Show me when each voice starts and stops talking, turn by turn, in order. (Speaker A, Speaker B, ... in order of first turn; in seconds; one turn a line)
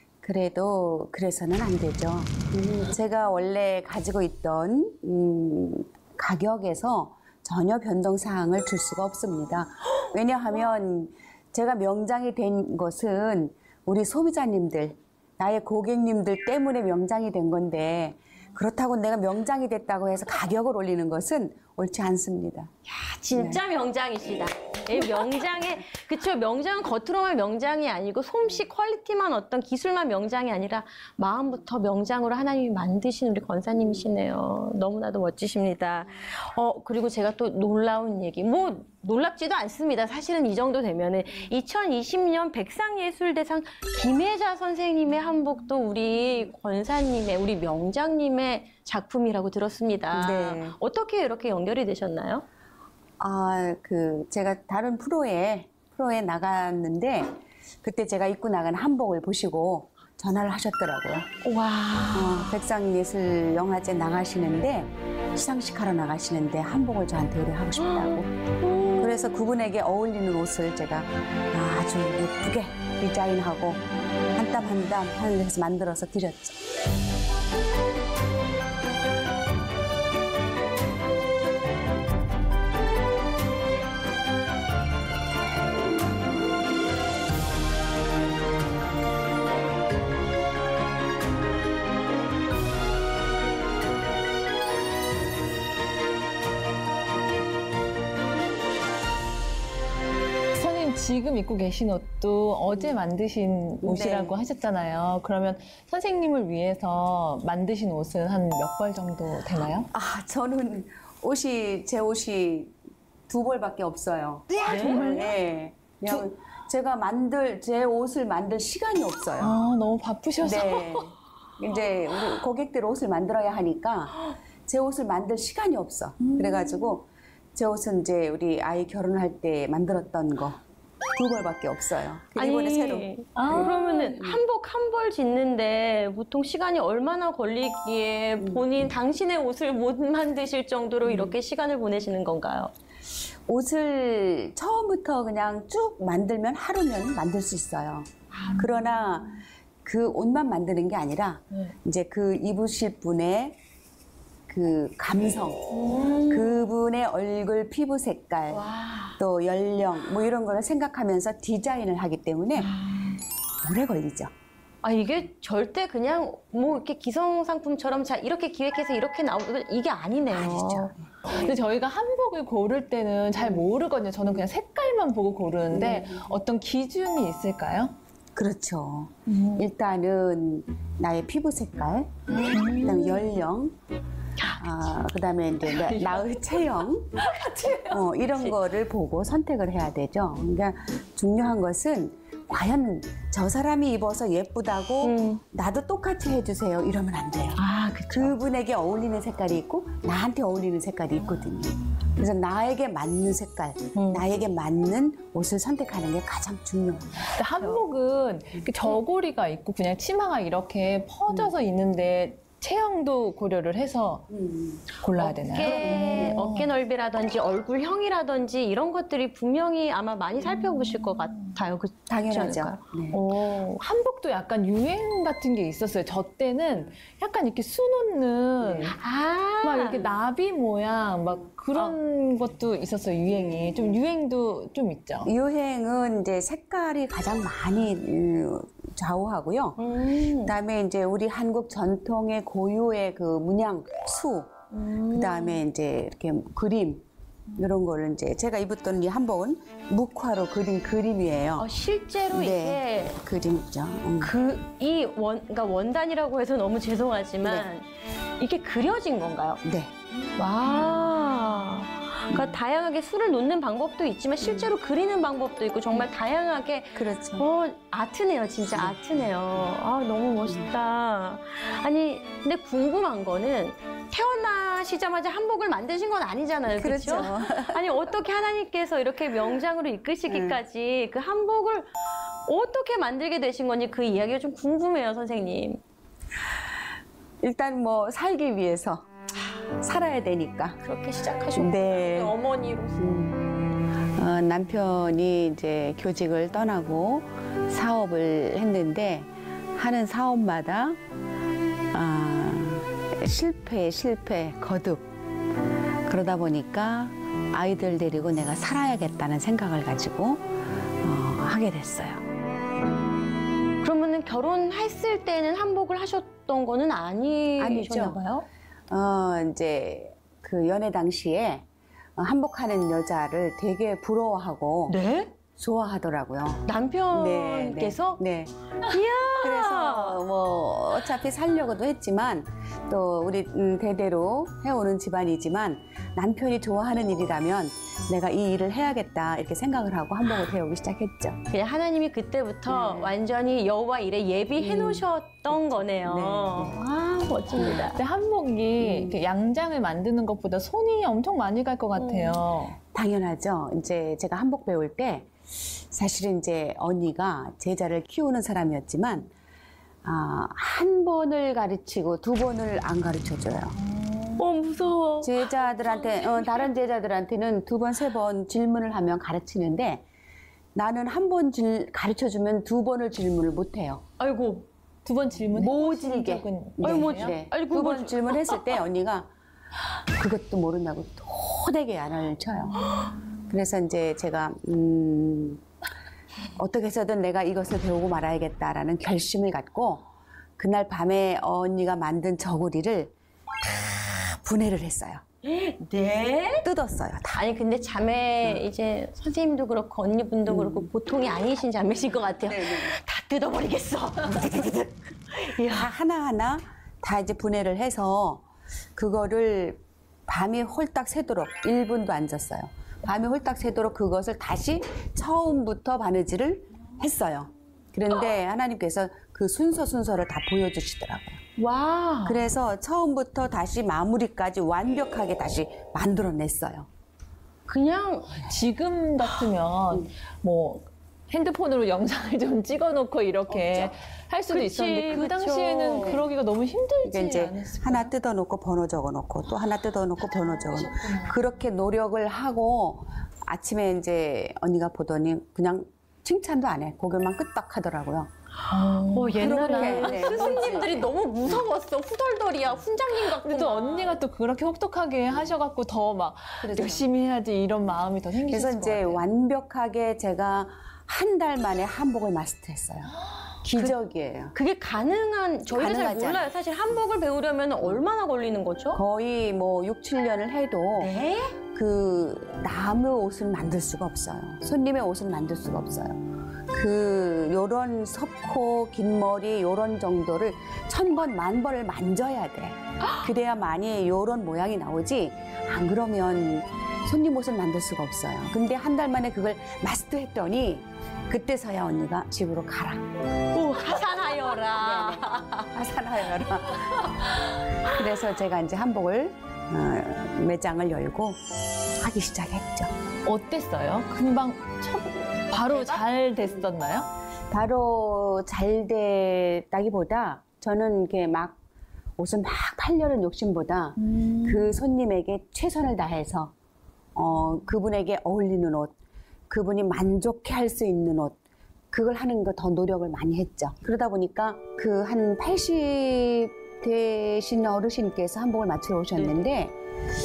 Speaker A: 0.2-22.7
Speaker B: 22.9-52.4
Speaker A: 23.3-23.6
Speaker A: 50.1-50.8
Speaker A: 53.2-61.3
Speaker B: 61.4-62.3
Speaker A: 62.1-68.3
Speaker B: 67.8-69.3
Speaker A: 68.9-73.8
Speaker A: 74.3-76.6
Speaker C: 100.5-109.9
Speaker A: 103.8-104.3
Speaker A: 109.9-112.7
Speaker A: 113.3-119.6
Speaker C: 114.7-115.3
Speaker C: 119.4-121.1
Speaker A: 120.4-130.6
Speaker C: 126.2-126.9
Speaker A: 131.2-134.4
Speaker B: 132.3-142.7
Speaker C: 133.3-133.8
Speaker A: 141.1-141.3
Speaker A: 143.5-153.6
Speaker A: 154.5-155.6
Speaker B: 155.7-156.7
Speaker A: 156.3-162.7
Speaker B: 158.5-159.2
Speaker A: 163.6-164.3
Speaker B: 164.8-170.9
Speaker A: 170.3-171.5
Speaker C: 171.3-177.9
Speaker A: 175.7-176.2
Speaker A: 178.3-183.7
Speaker B: 182.4-183.0
Speaker C: 182.5-183.1
Speaker A: 184.6-187.2
Speaker C: 186.0-186.2
Speaker C: 187.3-187.8
Speaker B: 187.6-187.8
Speaker A: 187.8-207.3
Speaker B: 195.0-195.4
Speaker B: 197.6-198.3
Speaker B: 203.9-204.2
Speaker C: 207.3-214.3
Speaker A: 214.3-214.9
Speaker C: 215.0-216.7
Speaker B: 215.2-223.8
Speaker A: 215.5-216.4
Speaker A: 222.1-223.2
Speaker C: 223.1-228.9
Speaker B: 228.9-230.1
Speaker C: 229.6-235.3
Speaker A: 233.3-233.9
Speaker A: 235.2-239.8
Speaker B: 239.8-240.5
Speaker A: 240.4-244.5
Speaker B: 244.7-245.6
Speaker A: 245.1-247.0
Speaker A: 247.6-251.7
Speaker B: 251.6-253.2
Speaker A: 252.3-254.3
Speaker B: 254.2-257.9
Speaker B: 258.4-259.6
Speaker A: 259.6-259.9
Speaker B: 260.4-281.9
Speaker A: 262.3-262.5
Speaker A: 264.4-264.7
Speaker A: 266.9-267.5
Speaker A: 276.8-277.8
Speaker A: 280.3-280.6
Speaker B: 282.4-285.8
Speaker A: 287.4-290.8
Speaker B: 290.8-293.0
Speaker A: 291.5-292.3
Speaker A: 292.9-301.0
Speaker A: 301.9-305.1
Speaker A: 306.0-312.2
Speaker B: 313.8-318.4
Speaker A: 317.6-318.2
Speaker A: 318.9-321.6
Speaker A: 322.1-325.0
Speaker B: 324.9-325.3
Speaker A: 325.6-328.5
Speaker B: 326.6-328.2
Speaker B: 328.8-330.2
Speaker A: 329.3-341.4
Speaker B: 341.5-348.0
Speaker A: 342.7-343.1
Speaker A: 344.6-346.8
Speaker C: 347.6-352.8
Speaker A: 348.8-349.1
Speaker B: 352.0-352.4
Speaker A: 352.9-355.3
Speaker A: 355.9-359.3
Speaker A: 360.0-363.7
Speaker C: 364.0-364.4
Speaker B: 364.4-366.6
Speaker A: 365.2-370.0
Speaker A: 370.7-374.0
Speaker B: 374.2-374.6
Speaker C: 375.0-377.3
Speaker A: 375.5-379.3
Speaker B: 376.8-378.7
Speaker A: 380.1-382.8
Speaker A: 383.5-385.6
Speaker A: 386.6-390.1
Speaker A: 390.6-395.2
Speaker B: 395.4-396.6
Speaker A: 396.6-397.5
Speaker B: 397.3-405.9
Speaker A: 400.5-400.9
Speaker A: 402.4-403.0
Speaker A: 404.3-404.6
Speaker A: 405.7-408.4
Speaker A: 408.9-421.4
Speaker B: 421.6-422.4
Speaker A: 422.2-426.9
Speaker B: 427.7-428.4
Speaker C: 428.4-438.1
Speaker A: 433.6-433.9
Speaker B: 434.5-436.2
Speaker A: 437.0-448.3
Speaker C: 440.7-441.3
Speaker C: 448.7-450.6
Speaker B: 449.1-454.1
Speaker A: 449.4-451.6
Speaker C: 453.1-459.2
Speaker A: 456.6-457.0
Speaker A: 458.5-463.1
Speaker A: 463.6-464.6
Speaker B: 464.5-469.0
Speaker A: 465.6-466.5
Speaker A: 468.9-471.1
Speaker B: 471.0-471.6
Speaker A: 471.7-493.0
Speaker B: 493.5-495.7
Speaker A: 494.6-497.2
Speaker A: 497.8-501.4
Speaker A: 501.9-502.9
Speaker C: 503.2-507.1
Speaker B: 505.6-506.0
Speaker A: 507.5-511.6
Speaker A: 512.2-516.5
Speaker C: 514.0-514.8
Speaker A: 517.1-518.9
Speaker A: 519.5-521.4
Speaker A: 521.9-529.8
Speaker B: 529.1-529.4